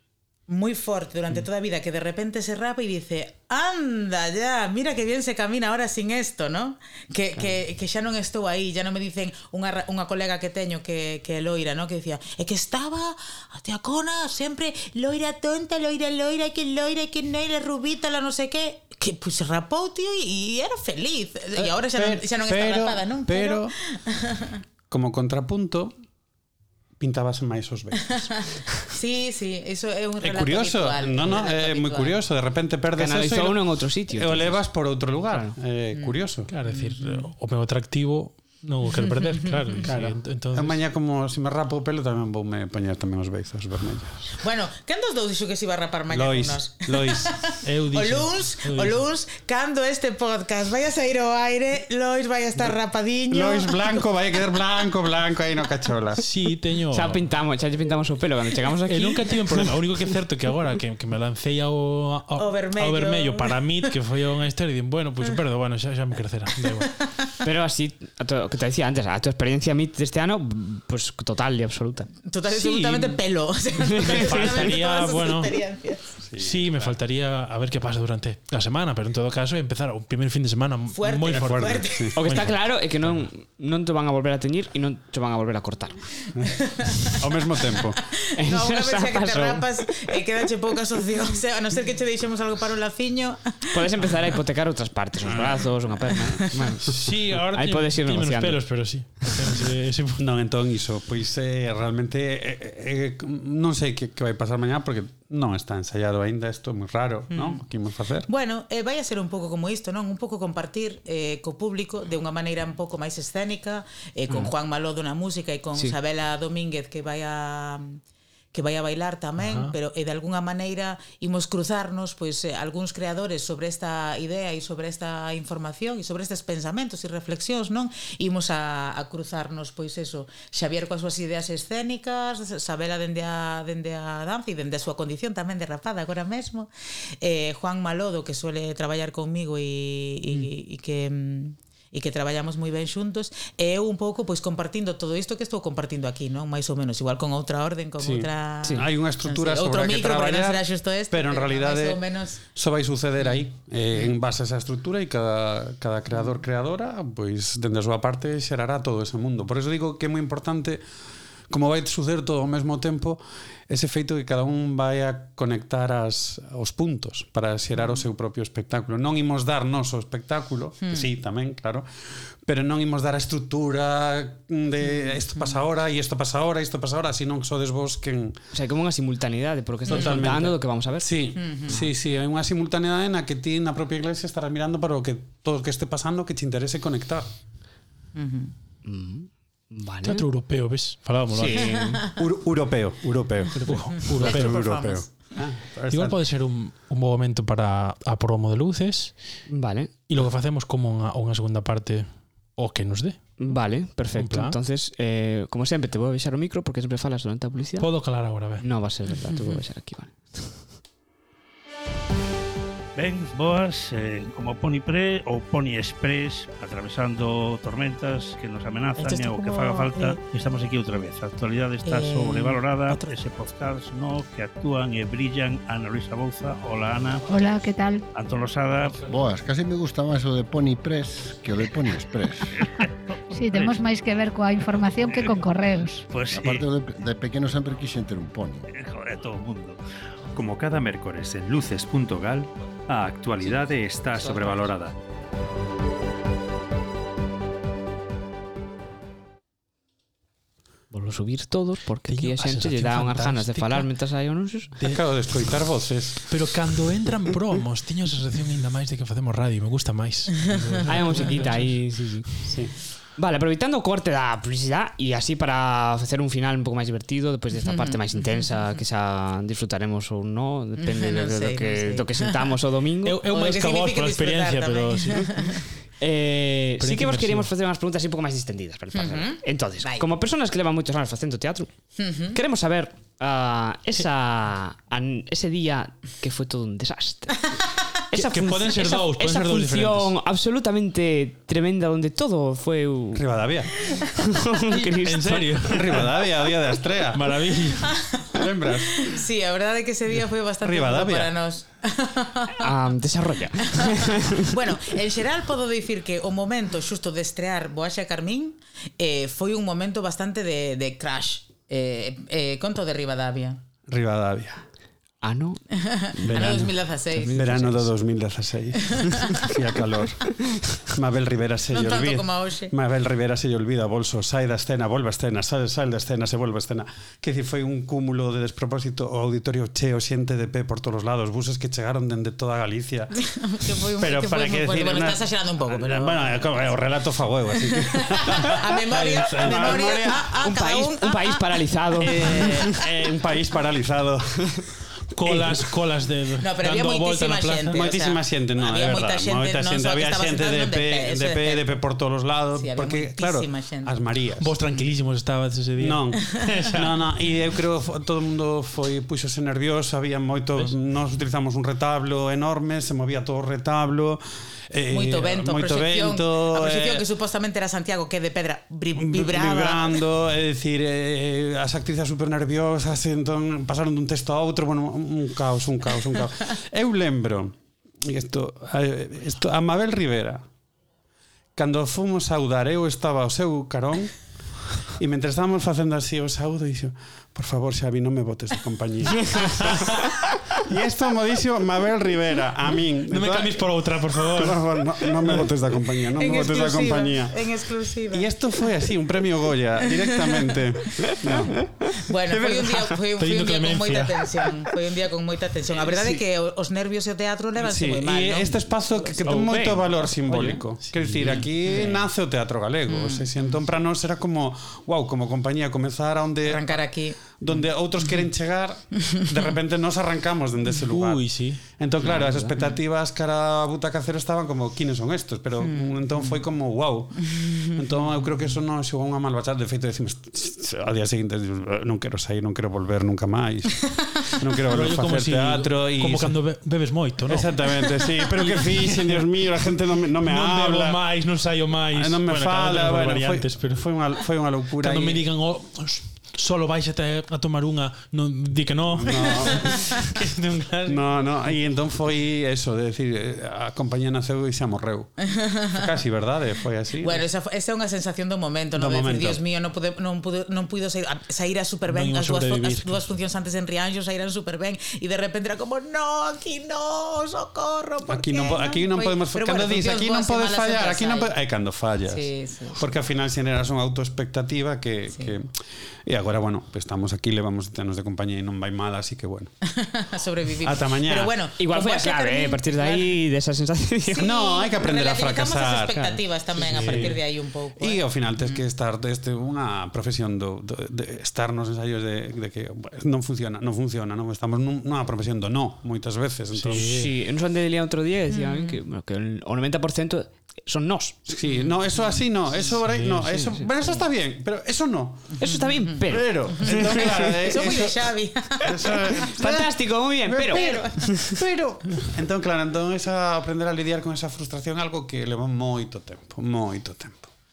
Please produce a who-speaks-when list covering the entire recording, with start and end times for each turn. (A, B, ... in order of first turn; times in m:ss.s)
0:00.5-0:24.6 A
0:21.6-0:23.7 B
0:24.9-0:25.9 B
0:27.0-0:28.3 B
0:28.9-0:32.2 A
0:30.2-0:36.5 B
0:33.0-0:34.6 C
0:35.3-0:35.5 C
0:36.0-0:37.2 A
0:36.5-0:40.8 D
0:38.8-0:39.8 A
0:39.8-0:44.3 B
0:44.4-0:54.1 A
0:46.1-0:47.4 B
0:47.6-0:49.0 D
0:53.3-0:56.2 B
0:56.2-0:57.2 D
0:56.9-0:59.7 C
0:58.9-1:06.9 D
1:02.4-1:03.9 A
1:06.8-1:07.1 A
1:07.4-1:12.1 C
1:12.2-1:16.2 A
1:12.5-1:13.2 D
1:14.0-1:14.7 C
1:14.0-1:15.5 D
1:16.2-1:16.9 B
1:16.4-1:22.6 D
1:20.9-1:22.2 A
1:21.3-1:22.1 B
1:22.1-1:26.0 C
1:26.3-1:28.0 B
1:26.6-1:27.1 A
1:28.1-1:34.0 A
1:28.3-1:29.7 C
1:33.7-1:39.6 C
1:35.3-1:35.5 B
1:36.9-1:40.2 D
1:40.2-1:48.3 B
1:47.3-1:47.6 A
1:48.3-1:58.0 A
1:58.5-2:16.7 A
1:59.4-1:59.7 D
2:17.2-2:32.4 A
2:28.0-2:40.8 B
2:41.5-2:58.4 B
2:50.8-2:51.1 A
2:54.9-2:55.6 A
2:58.5-3:01.9 C
2:59.9-3:00.2 A
2:59.9-3:07.3 B
3:01.4-3:01.8 A
3:08.1-3:08.5 A
3:08.8-3:10.3 C
3:10.0-3:11.8 D
3:11.3-3:12.0 C
3:11.6-3:12.0 A
3:12.2-3:16.2 B
3:13.5-3:14.8 D
3:14.1-3:15.3 A
3:15.9-3:19.4 D
3:19.5-3:19.9 C
3:20.1-3:24.6 D
3:23.4-3:30.7 C
3:27.8-3:28.6 D
3:29.2-3:29.6 A
3:33.0-3:47.3 E
3:39.0-3:40.2 A
3:41.8-3:43.1 A
3:47.3-3:48.0 F
3:48.1-3:49.2 E
3:49.0-3:52.5 G
3:52.6-3:53.8 E
3:53.3-3:56.0 F
3:55.1-3:55.4 E
3:56.1-3:56.6 E
3:56.3-3:58.7 G
3:58.7-3:59.8 E
4:00.3-4:05.0 H
4:04.2-4:04.5 C
4:10.9-4:14.7 C
4:12.0-4:14.0 D
4:14.8-4:15.0 D
4:14.8-4:16.6 B
4:16.3-4:22.1 D
4:20.8-4:33.2 C
4:22.5-4:22.7 B
4:27.6-4:28.6 A
4:30.8-4:32.5 A
4:33.0-4:35.4 D
4:33.3-4:35.6 A
4:36.0-4:47.5 C
4:36.8-4:37.5 D
4:38.9-4:40.0 A
4:42.0-4:42.4 A
4:47.4-4:47.6 A
4:48.1-4:53.2 C
4:48.1-4:50.1 D
4:53.1-4:53.7 B
4:54.3-4:55.7 C
4:55.0-4:56.1 D
4:55.7-4:57.2 B
4:57.1-4:58.0 D
4:57.9-4:58.4 A
4:58.3-4:59.0 B
4:59.0-5:02.7 A
5:00.6-5:01.3 B
5:02.6-5:04.7 C
5:03.7-5:13.6 A
5:13.9-5:14.6 B
5:15.2-5:15.6 C
5:15.8-5:17.3 A
5:16.1-5:17.9 C
5:16.3-5:16.7 B
5:17.3-5:33.2 B
5:21.7-5:22.7 A
5:33.2-5:36.6 A
5:34.0-5:38.6 B
5:38.0-5:42.5 A
5:38.9-5:39.8 D
5:39.2-5:40.3 B
5:40.2-5:42.6 C
5:42.0-5:44.6 B
5:45.1-5:47.9 D
5:45.2-5:45.5 B
5:46.4-5:51.6 A
5:47.7-5:54.5 B
5:52.6-5:53.9 A
5:54.4-5:57.0 D
5:55.8-6:07.0 B
6:04.9-6:10.0 A
6:09.0-6:20.5 B
6:21.5-6:24.3 B
6:24.8-6:29.9 B
6:30.6-6:37.4 B
6:33.1-6:35.5 D
6:36.2-6:38.5 A
6:38.1-6:41.6 B
6:42.1-6:48.7 A
6:42.3-6:43.0 B
6:43.2-6:44.5 D
6:45.9-6:46.2 B
6:47.6-7:16.6 B
6:49.1-6:52.1 C
6:50.9-6:51.5 D
6:52.9-6:53.2 A
6:56.4-6:58.2 A
7:00.9-7:01.6 D
7:02.0-7:02.6 C
7:05.6-7:06.4 A
7:07.2-7:07.6 A
7:14.7-7:19.2 D
7:17.3-7:21.1 B
7:20.2-7:23.9 D
7:21.9-7:25.2 B
7:24.8-7:31.0 D
7:28.9-7:29.8 B
7:30.8-7:37.2 B
7:35.3-7:35.8 A
7:37.0-7:51.3 A
7:38.7-7:39.4 B
7:41.9-7:43.0 D
7:48.0-7:59.5 B
7:52.1-7:52.8 A
7:59.7-8:03.2 A
8:00.6-8:01.3 B
8:01.6-8:04.3 C
8:04.0-8:08.6 A
8:04.2-8:07.2 B
8:06.6-8:07.2 D
8:07.8-8:17.0 B
8:16.5-8:17.1 D
8:16.7-8:21.2 C
8:18.3-8:18.8 A
8:21.3-8:25.4 B
8:21.4-8:22.2 A
8:22.6-8:23.6 D
8:23.5-8:24.0 C
8:25.4-8:27.4 C
8:25.4-8:26.0 A
8:26.1-8:37.3 B
8:26.7-8:29.0 A
8:29.2-8:31.3 C
8:30.5-8:31.2 A